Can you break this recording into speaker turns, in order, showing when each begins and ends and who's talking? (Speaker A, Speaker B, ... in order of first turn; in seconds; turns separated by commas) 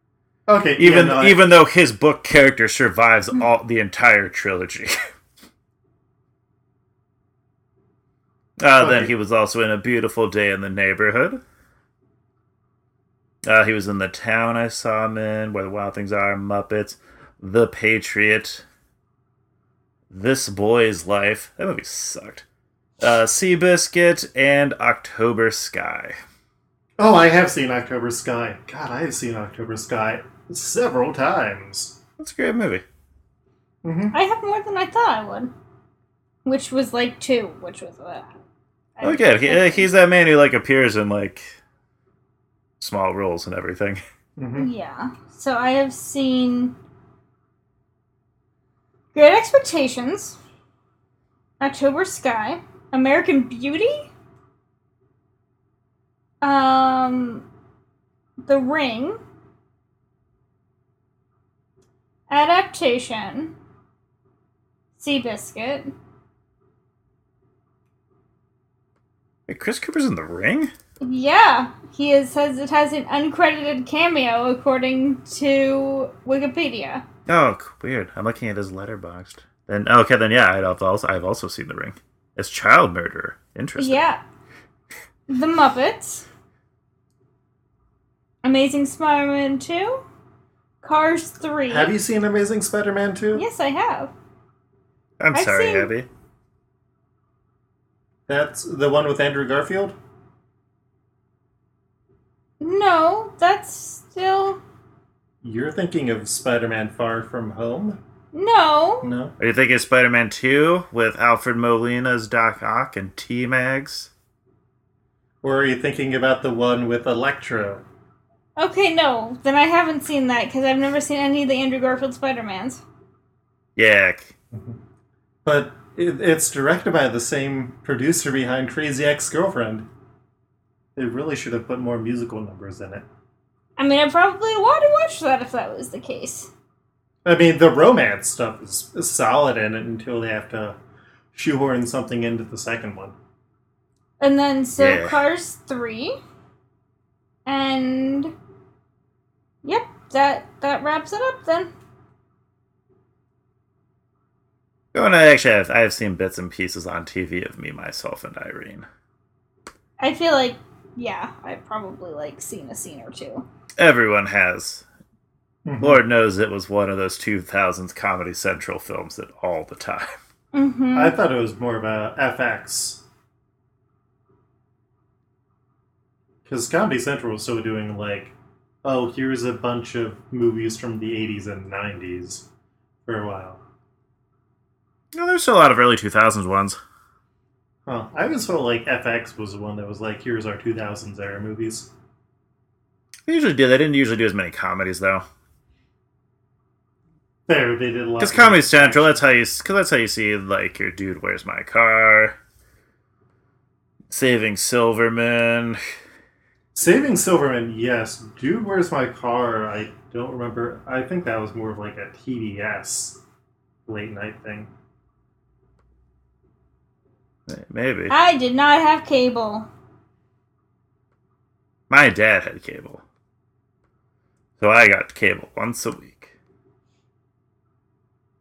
Speaker A: 0.5-1.4, Speaker B: 0.8-4.9, Speaker B: 8.6-11.4, Speaker A: 8.8-9.1, Speaker B: 13.4-18.6, Speaker B: 20.1-22.4, Speaker B: 23.0-26.2, Speaker A: 27.0-32.0, Speaker B: 32.2-32.8, Speaker A: 33.8-34.2, Speaker C: 34.1-35.5, Speaker C: 36.5-38.3, Speaker C: 39.0-39.9, Speaker B: 39.0-41.6, Speaker B: 42.8-44.0, Speaker A: 44.4-44.7, Speaker C: 44.6-46.7, Speaker C: 49.1-50.4, Speaker C: 51.6-54.1, Speaker C: 56.4-57.5, Speaker C: 58.5-59.2, Speaker C: 62.3-63.5, Speaker C: 65.0-65.9, Speaker B: 69.5-70.7, Speaker C: 71.0-77.0, Speaker B: 77.3-84.0, Speaker C: 83.8-84.2, Speaker C: 85.3-86.2, Speaker C: 88.4-90.0, Speaker C: 90.8-91.9, Speaker A: 91.7-93.4, Speaker C: 93.3-94.1, Speaker B: 95.2-96.1, Speaker C: 95.3-95.9, Speaker A: 98.3-100.0, Speaker C: 102.6-104.6, Speaker A: 105.4-108.0, Speaker C: 108.3-109.1, Speaker A: 109.0-109.3, Speaker B: 109.4-114.1, Speaker A: 115.4-117.8, Speaker C: 118.6-122.8, Speaker B: 123.8-124.3, Speaker A: 124.5-124.8, Speaker A: 125.5-129.9, Speaker A: 131.0-133.1, Speaker C: 133.8-136.5, Speaker A: 137.2-140.8, Speaker A: 141.3-143.2, Speaker C: 144.2-146.2, Speaker B: 144.8-145.2, Speaker C: 147.5-148.3, Speaker C: 149.6-151.7, Speaker B: 154.9-158.9, Speaker C: 160.0-163.4, Speaker B: 163.8-164.8, Speaker A: 165.7-166.0, Speaker B: 165.8-170.2, Speaker C: 170.5-171.2, Speaker A: 170.9-173.0, Speaker A: 176.5-182.5, Speaker A: 183.1-183.6, Speaker B: 185.1-186.8, Speaker A: 187.9-191.9, Speaker B: 193.3-195.2, Speaker A: 197.5-199.2, Speaker B: 198.2-202.4, Speaker B: 204.1-205.8, Speaker A: 206.8-213.2, Speaker A: 213.9-214.7, Speaker B: 217.5-218.2, Speaker C: 218.1-219.7, Speaker B: 221.9-223.0, Speaker B: 224.6-226.3